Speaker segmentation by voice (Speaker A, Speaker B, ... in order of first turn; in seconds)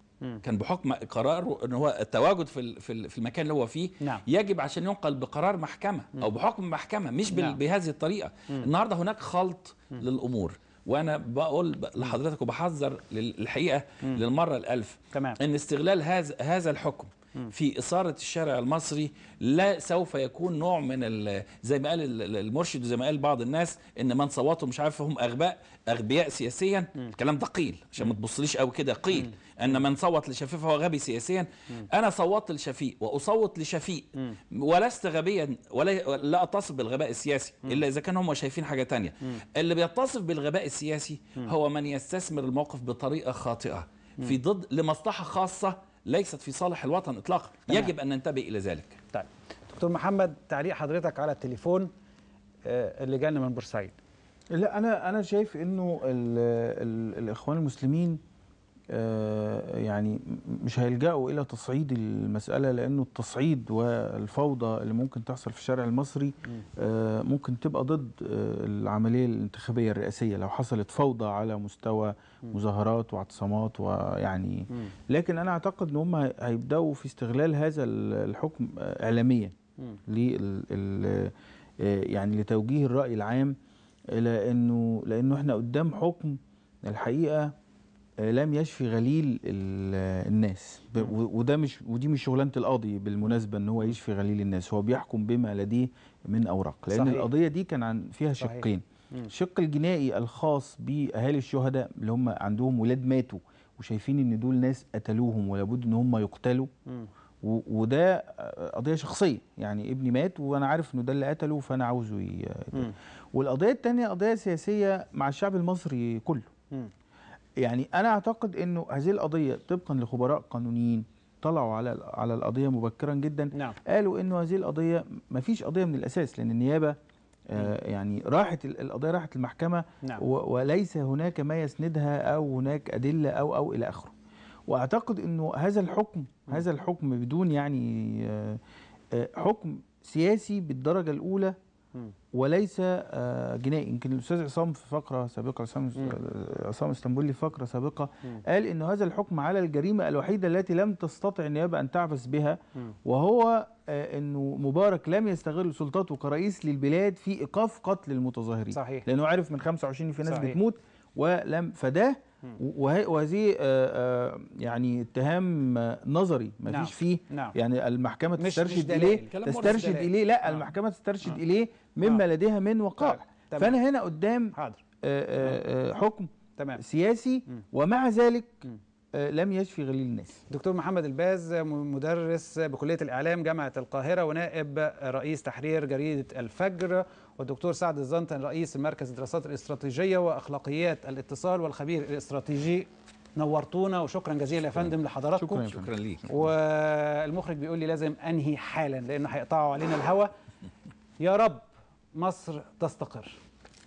Speaker A: 0.4-49.0, 195.7-196.3
Speaker B: 7.3-7.6, 15.1-15.4, 29.2-29.8, 47.7-47.9, 49.1-51.9, 52.6-54.0, 96.9-97.3, 98.4-99.3, 158.7-159.1, 160.3-160.6, 166.7-167.6, 168.4-170.6, 173.0-173.8, 174.5-174.8, 176.6-176.8, 180.5-195.7, 196.3-200.3, 201.2-203.4
Speaker C: 54.5-58.2, 58.9-79.5, 80.1-83.6, 84.1-87.5, 88.2-106.7, 107.4-116.5, 117.6-127.0, 127.5-134.1, 134.7-138.6, 139.1-141.6, 142.3-180.4, 195.4-195.9